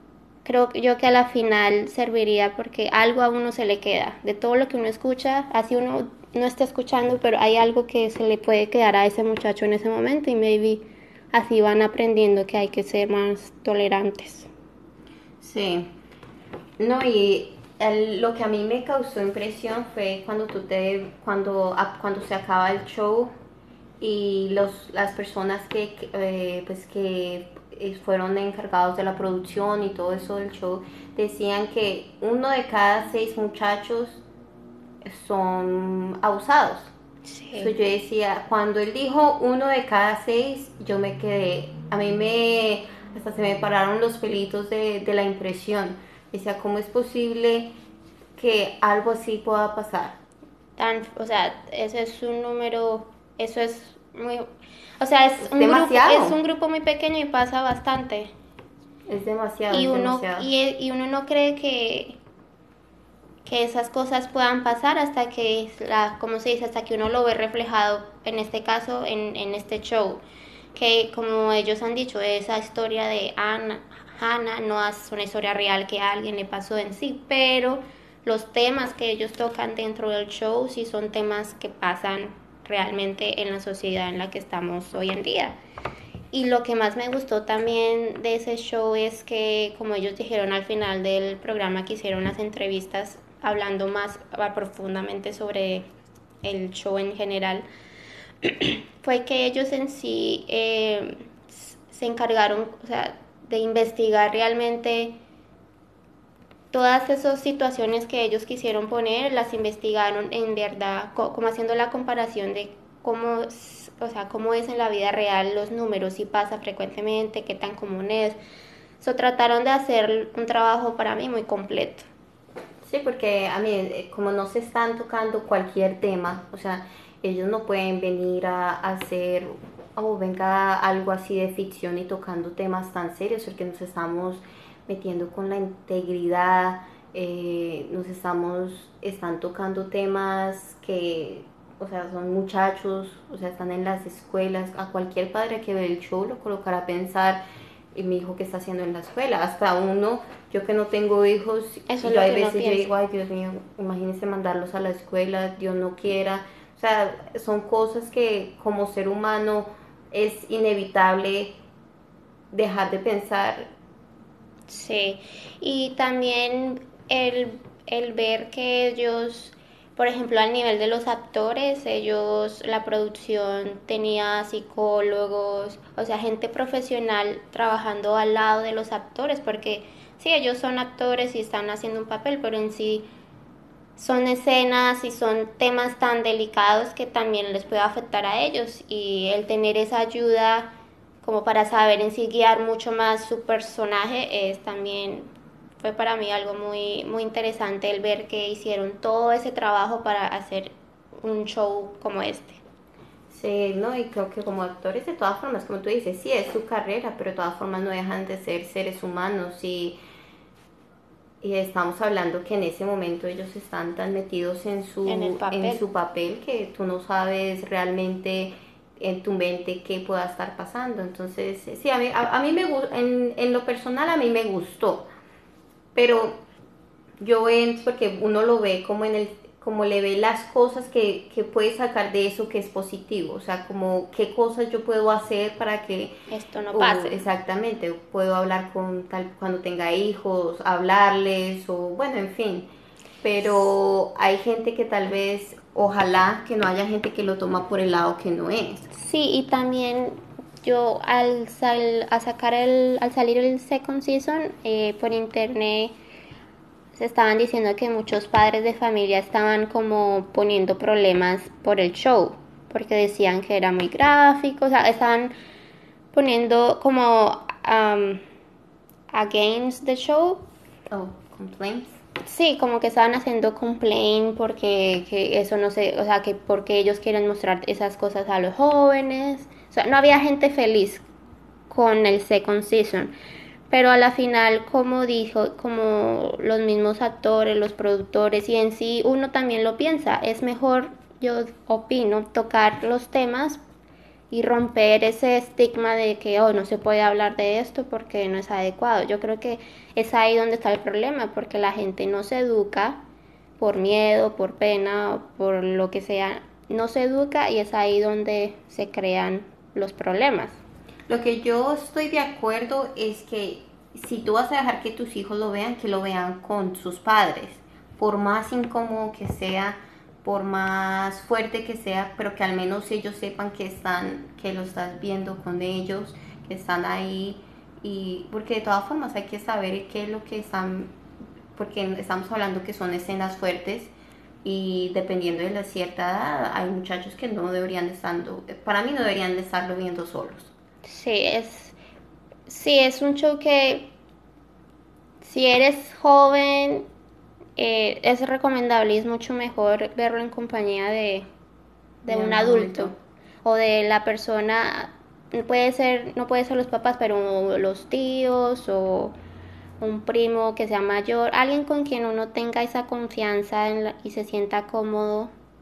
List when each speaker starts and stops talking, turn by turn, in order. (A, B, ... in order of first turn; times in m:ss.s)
0:00.4-0:14.5 A
0:15.4-0:15.9 B
0:16.8-0:23.3 B
0:24.0-0:34.2 B
0:35.0-0:36.9 B
0:37.2-0:37.7 A
0:37.5-0:47.7 B
0:48.4-0:50.2 B
0:50.8-0:54.5 A
0:55.0-0:58.3 A
0:55.4-0:56.4 B
0:59.1-1:00.5 B
0:59.7-1:02.2 A
1:03.4-1:10.2 A
1:10.7-1:25.6 A
1:26.3-1:35.9 A
1:36.4-1:37.7 A
1:38.4-1:45.2 A
1:46.7-1:58.4 A
1:59.0-2:02.1 A
2:02.8-2:27.4 B
2:27.9-2:41.6 B
2:31.9-2:32.9 A
2:42.5-2:43.7 B
2:44.7-3:03.1 A
3:04.0-3:10.7 A
3:11.2-3:15.3 A
3:15.8-3:22.6 A
3:23.3-3:30.0 B
3:31.4-3:45.1 B
3:35.0-3:35.8 A
3:45.9-3:46.4 B
3:47.2-3:56.2 B
3:56.3-3:57.2 A
3:56.7-4:02.7 B
4:03.2-4:08.9 B
4:08.9-4:16.0 A
4:17.0-4:25.3 A
4:26.1-4:28.2 A
4:29.1-4:30.4 A
4:30.9-4:31.9 B
4:32.3-4:41.0 A
4:41.7-4:43.1 A
4:43.7-4:53.6 A
4:54.3-5:03.0 A
5:03.6-5:10.6 A
5:11.1-5:30.9 B
5:31.6-5:33.9 B
5:34.4-5:40.5 B
5:40.8-5:41.8 A
5:42.5-5:43.9 A
5:45.2-5:46.9 A
5:47.6-5:51.2 A
5:52.0-5:59.2 A
5:52.1-5:53.0 B
5:59.8-6:05.3 A